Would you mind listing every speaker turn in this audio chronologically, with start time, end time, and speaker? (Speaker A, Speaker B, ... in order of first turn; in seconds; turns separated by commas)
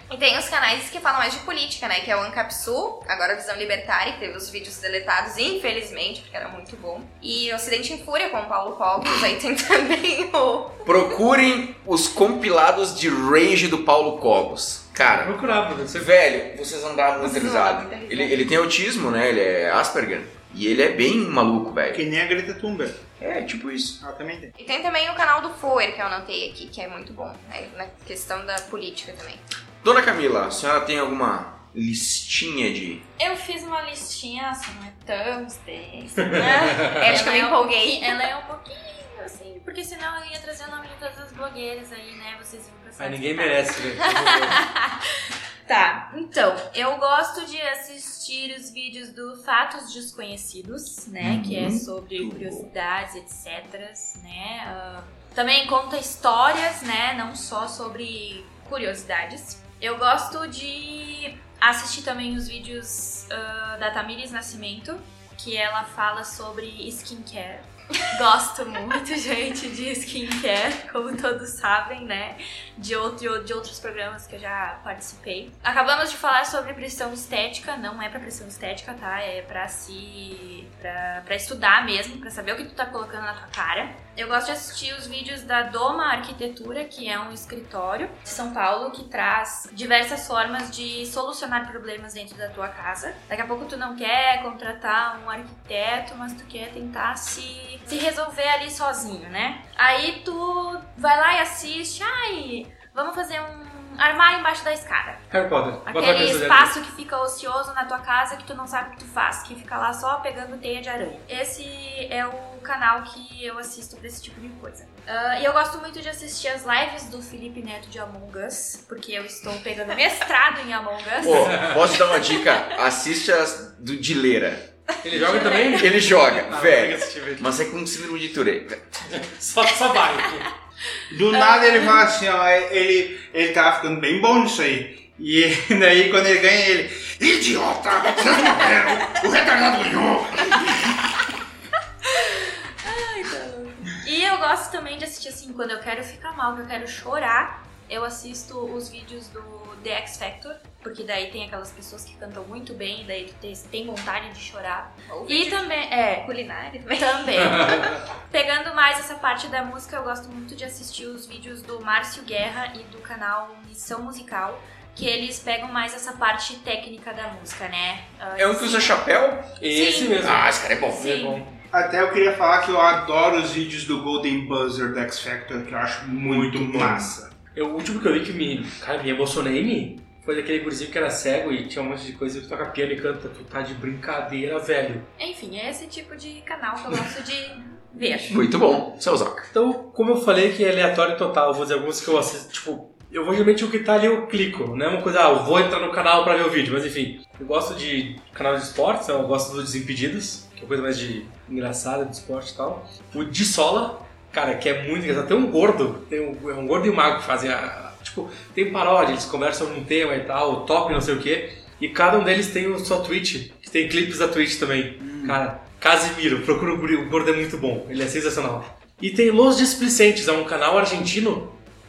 Speaker A: 0.1-11.1, Speaker B: 10.8-15.3, Speaker C: 15.0-16.1, Speaker B: 15.9-22.0, Speaker A: 17.2-18.4, Speaker D: 21.9-23.0, Speaker B: 23.2-24.0, Speaker D: 24.0-24.5, Speaker A: 24.6-29.4, Speaker B: 29.8-33.0, Speaker E: 33.2-45.0, Speaker C: 36.2-37.1, Speaker A: 36.3-38.3, Speaker C: 43.0-44.6, Speaker E: 45.7-105.3, Speaker B: 51.2-52.7, Speaker C: 105.3-106.7, Speaker E: 105.8-122.3, Speaker B: 121.2-124.7, Speaker C: 125.0-127.5, Speaker B: 125.7-129.0, Speaker C: 129.1-130.5, Speaker D: 131.1-141.2, Speaker E: 131.4-131.9, Speaker E: 142.0-156.3, Speaker A: 155.1-157.3, Speaker E: 156.9-169.1, Speaker C: 157.4-158.0, Speaker B: 168.4-169.5, Speaker C: 169.6-171.5, Speaker E: 169.6-171.4, Speaker B: 170.2-171.1, Speaker D: 171.7-177.3, Speaker C: 176.2-185.1, Speaker E: 185.2-188.4, Speaker B: 188.2-189.5, Speaker C: 189.5-221.6, Speaker D: 215.0-215.4